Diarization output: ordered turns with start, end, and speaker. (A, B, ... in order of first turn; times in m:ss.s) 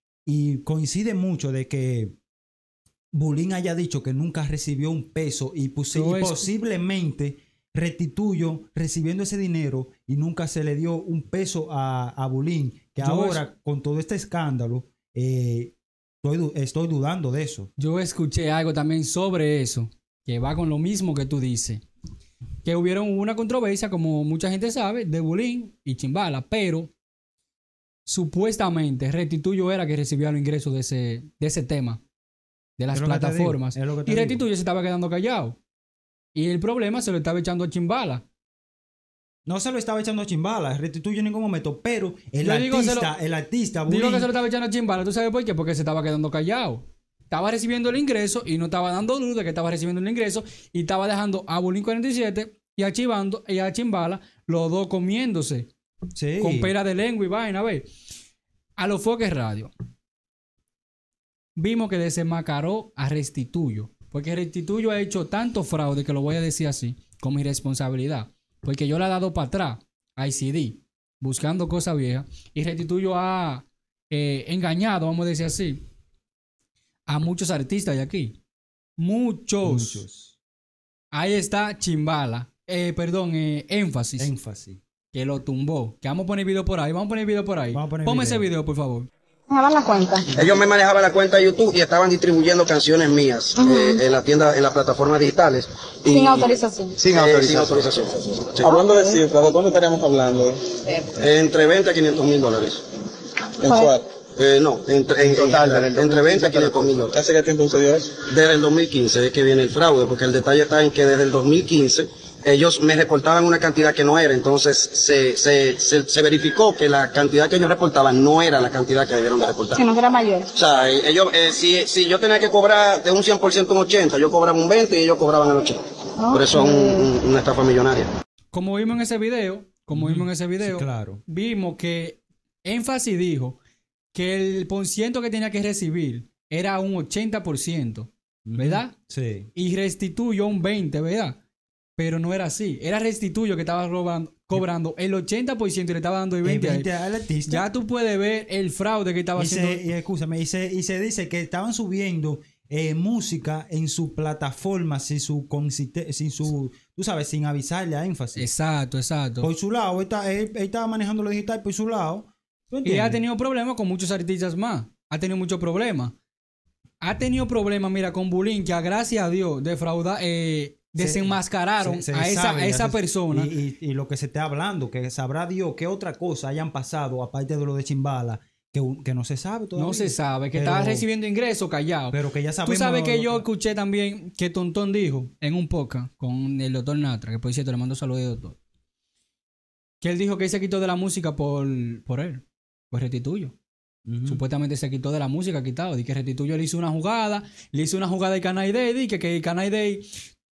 0:00.2-0:02.2 A
0:03.1-0:17.7 A
0:05.9-0:06.4 B
0:13.0-0:13.4 B
0:17.8-0:21.8 B
0:22.6-0:26.9 B
0:28.0-0:32.0 B
0:32.8-0:35.6 B
0:32.9-0:34.4 A
0:36.3-0:38.2 B
0:39.4-0:44.3 A
0:42.4-0:43.1 B
0:43.9-0:55.7 B
0:56.1-0:56.7 A
0:56.4-0:57.8 B
0:58.8-0:59.7 B
1:01.6-1:15.8 B
1:17.1-1:18.4 B
1:19.0-1:20.0 B
1:19.6-1:20.4 A
1:21.1-1:24.3 B
1:24.2-1:24.8 A
1:25.1-1:29.1 B
1:27.7-1:28.5 A
1:29.5-1:30.3 C
1:30.3-1:38.8 D
1:33.6-1:34.0 C
1:36.1-1:37.0 C
1:37.1-1:37.8 E
1:38.6-1:40.7 E
1:38.6-1:39.2 C
1:41.2-1:42.8 D
1:43.6-1:44.1 E
1:43.7-1:43.9 C
1:44.4-1:47.2 D
1:45.2-1:48.1 E
1:48.2-1:59.8 D
1:59.7-2:00.5 C
2:00.5-2:08.1 D
2:06.2-2:07.1 C
2:08.5-2:13.6 B
2:09.9-2:11.2 A
2:14.1-2:18.9 B
2:18.4-2:19.5 A
2:19.5-2:21.4 B
2:22.0-2:26.9 B
2:26.4-2:27.7 A
2:27.5-2:29.8 B
2:29.4-2:38.5 A
2:38.4-2:39.5 B
2:39.4-2:43.2 A
2:42.8-2:46.2 B
2:47.0-2:53.5 B
2:51.0-3:01.0 A
2:59.8-3:08.6 B
3:02.1-3:03.4 A
3:10.0-3:13.5 B
3:14.0-3:14.4 A
3:14.2-3:20.1 B